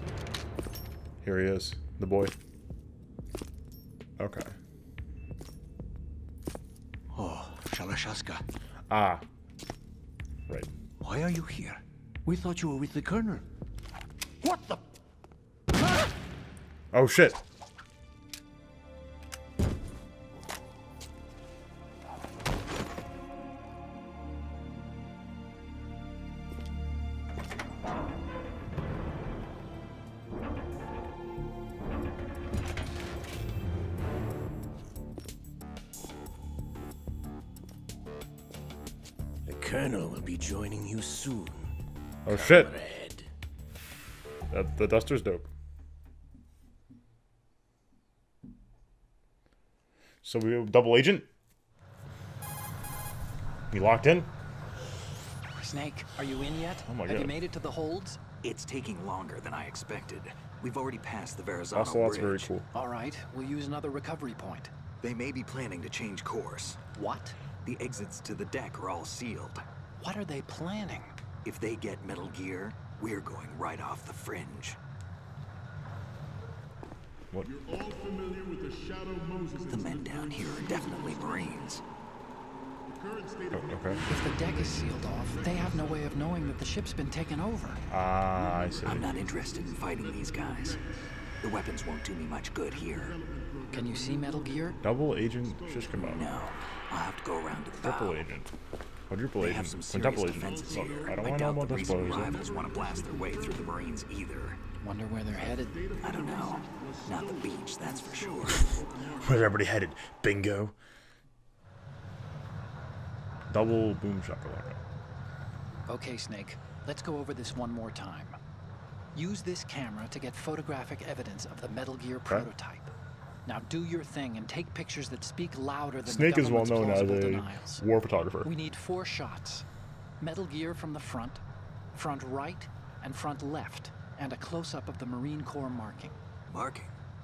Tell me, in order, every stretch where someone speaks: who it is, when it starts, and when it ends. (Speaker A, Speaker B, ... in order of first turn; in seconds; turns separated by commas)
Speaker A: 1.2-2.3, Speaker A: 4.2-4.5, Speaker A: 8.9-9.2, Speaker B: 12.3-13.4, Speaker A: 16.9-17.4, Speaker B: 39.5-41.7, Speaker A: 42.2-42.7, Speaker B: 42.3-43.3, Speaker A: 44.5-45.5, Speaker A: 50.2-51.3, Speaker A: 53.7-54.3, Speaker C: 55.5-58.2, Speaker A: 56.8-57.3, Speaker D: 58.4-62.5, Speaker A: 61.7-62.7, Speaker C: 62.7-64.7, Speaker D: 65.0-66.8, Speaker C: 66.9-67.3, Speaker D: 67.6-69.6, Speaker C: 70.0-71.1, Speaker D: 71.4-74.8, Speaker E: 77.4-81.8, Speaker D: 79.7-81.8, Speaker E: 82.9-86.8, Speaker A: 83.5-84.0, Speaker C: 84.0-87.8, Speaker A: 87.9-89.2, Speaker E: 88.3-91.2, Speaker D: 88.8-90.8, Speaker D: 91.4-93.2, Speaker E: 92.7-96.2, Speaker C: 93.7-94.8, Speaker A: 94.8-96.3, Speaker D: 95.9-98.2, Speaker A: 97.8-98.5, Speaker A: 99.1-102.3, Speaker D: 99.4-104.6, Speaker E: 100.3-103.9, Speaker C: 104.8-105.8, Speaker E: 105.2-109.6, Speaker D: 106.0-108.8, Speaker A: 109.2-110.7, Speaker A: 113.5-114.8, Speaker C: 115.9-118.4, Speaker C: 119.1-122.9, Speaker C: 123.5-127.9, Speaker A: 126.0-128.5, Speaker C: 128.4-129.7, Speaker C: 130.2-131.4, Speaker C: 131.9-136.1, Speaker D: 136.5-136.9